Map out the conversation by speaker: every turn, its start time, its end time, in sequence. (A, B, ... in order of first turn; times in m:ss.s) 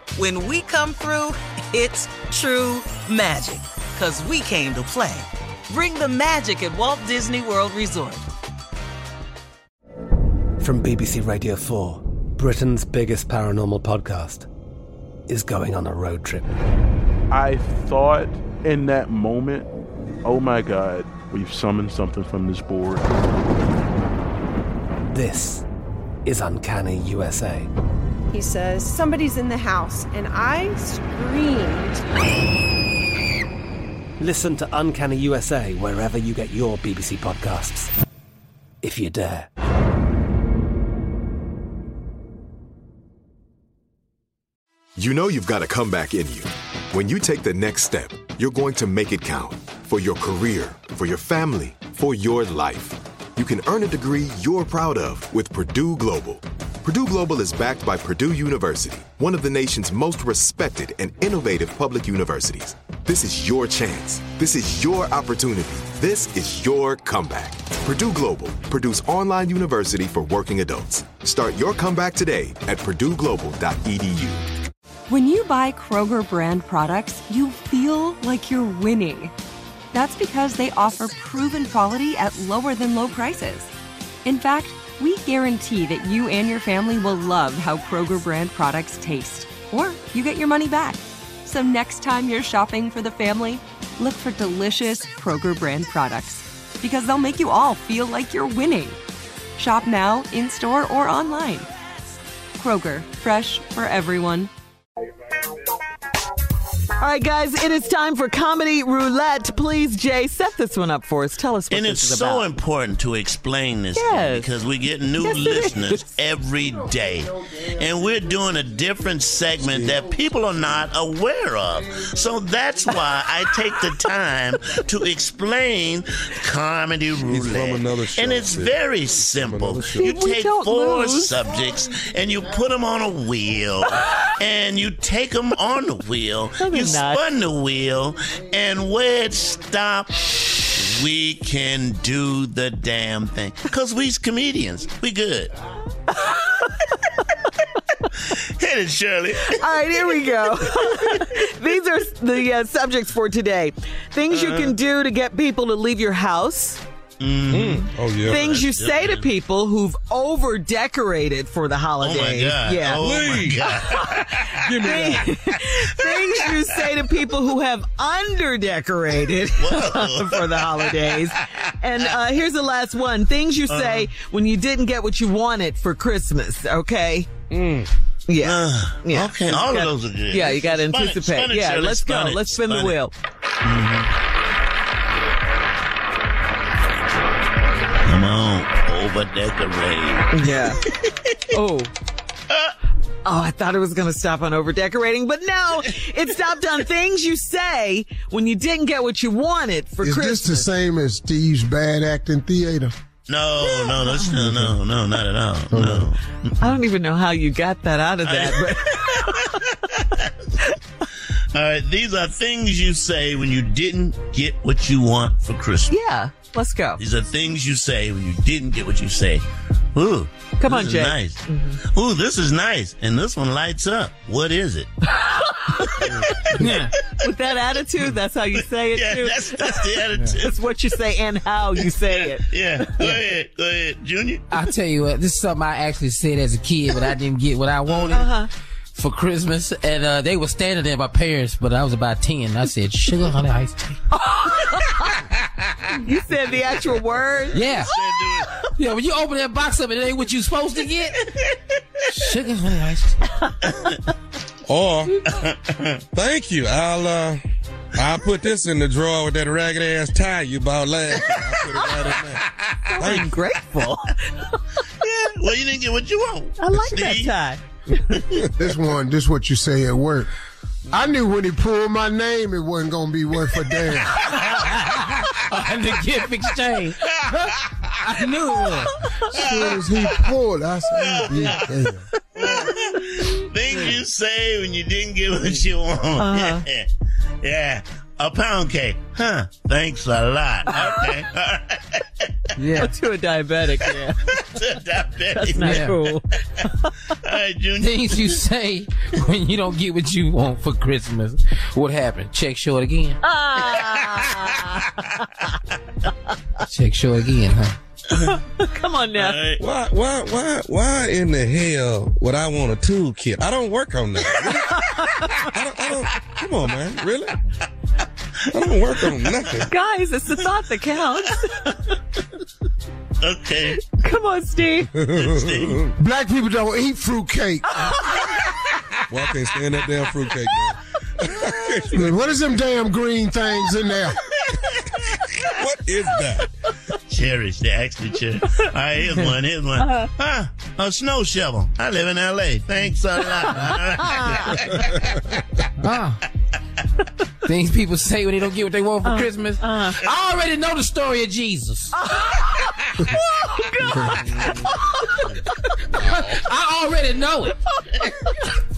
0:00.2-0:08.2 A
0:10.6-0:14.5 B
0:15.3-0:16.5 B
0:17.3-0:18.3 C
0:20.3-0:23.0 C
0:25.1-0:25.6 B
0:26.2-0:27.7 B
0:28.3-0:32.0 D
0:34.2-0:37.9 B
0:38.8-0:39.5 B
0:45.0-1:14.4 E
1:15.1-1:19.3 F
1:19.9-1:23.7 F
1:24.2-1:39.0 F
1:39.6-1:41.7 F
1:42.6-1:44.5 F
1:47.0-1:52.5 G
1:51.7-2:25.5 H
1:54.0-1:54.5 G
1:55.2-1:56.0 G
1:59.6-2:00.0 I
2:07.2-2:10.1 I
2:10.0-2:11.3 G
2:16.6-2:17.2 G
2:26.2-2:26.6 G
2:28.2-2:30.4 H
2:29.4-2:36.8 G
2:34.3-2:34.8 H
2:37.2-2:39.3 H
2:37.5-2:38.4 I
2:38.2-2:57.3 G
2:42.0-2:45.0 H
2:43.0-2:43.6 I
2:44.6-2:45.3 I
2:45.7-2:46.9 H
2:49.6-2:52.2 H
2:53.7-2:54.1 H
2:57.5-2:57.9 I
2:58.3-3:03.1 G
2:58.4-3:03.0 H
3:03.6-3:04.1 H
3:08.0-3:10.4 H
3:10.3-3:10.8 G
3:11.5-3:11.9 G
3:13.2-3:20.7 G
3:20.0-3:22.9 J
3:23.3-3:26.5 H
3:23.6-3:24.5 G
3:24.4-3:24.7 J
3:25.7-3:26.1 J
3:26.6-3:29.8 G
3:28.2-3:29.5 H
3:31.5-3:35.9 H
3:35.9-3:37.0 G
3:37.0-3:39.4 H
3:39.9-3:44.9 H
3:40.6-3:41.8 G
3:45.1-3:53.2 G
3:46.0-3:46.7 H
3:48.9-3:50.6 H
3:51.8-3:54.6 H
3:54.5-3:58.3 K
3:57.9-3:58.2 H
3:58.1-3:58.5 G
3:58.9-4:04.0 K
4:04.1-4:05.2 G
4:06.0-4:07.7 G
4:07.5-4:08.6 H
4:07.5-4:07.9 K
4:08.6-4:11.2 K
4:12.1-4:13.1 K
4:13.7-4:14.0 H
4:14.7-4:15.2 I
4:15.3-4:16.0 H
4:16.1-4:17.4 I
4:18.0-4:22.4 I
4:21.2-4:21.6 H
4:22.4-4:22.7 H
4:22.9-4:24.6 G
4:23.0-4:23.3 I
4:25.0-4:27.3 H
4:26.6-4:28.2 G
4:28.1-4:28.3 H
4:28.6-4:30.3 J
4:30.9-4:34.2 J
4:34.2-4:37.2 K
4:38.0-4:38.9 K
4:39.3-4:42.0 J
4:41.0-4:41.7 H
4:42.4-4:46.9 H
4:46.2-4:46.6 G
4:47.4-4:52.3 H
4:50.7-4:51.1 G
4:52.6-4:52.9 K
4:52.7-4:54.2 G
4:53.8-4:56.6 H
4:55.3-4:56.9 G
4:55.7-4:56.0 K
4:57.2-4:58.4 H
4:57.8-5:03.2 K
5:03.2-5:05.5 G
5:03.7-5:03.9 H
5:06.7-5:07.7 K
5:08.1-5:09.5 G
5:09.1-5:09.6 H
5:09.6-5:17.4 I
5:14.2-5:15.4 G
5:18.5-5:19.7 I
5:18.9-5:19.5 H
5:19.6-5:22.0 G
5:23.2-5:23.8 H
5:23.8-5:24.9 G
5:24.9-5:25.9 I
5:25.2-5:25.8 H
5:26.0-5:27.7 J
5:27.7-5:28.6 G
5:29.1-5:32.0 I
5:31.9-5:34.2 J
5:35.4-5:36.4 I
5:37.1-5:44.6 H
5:44.2-5:44.4 G
5:44.6-5:45.2 I
5:45.8-5:46.2 K
5:47.4-5:51.9 K
5:49.0-5:50.0 G
5:51.9-5:56.4 G
5:56.1-5:57.5 K
5:57.6-5:58.5 G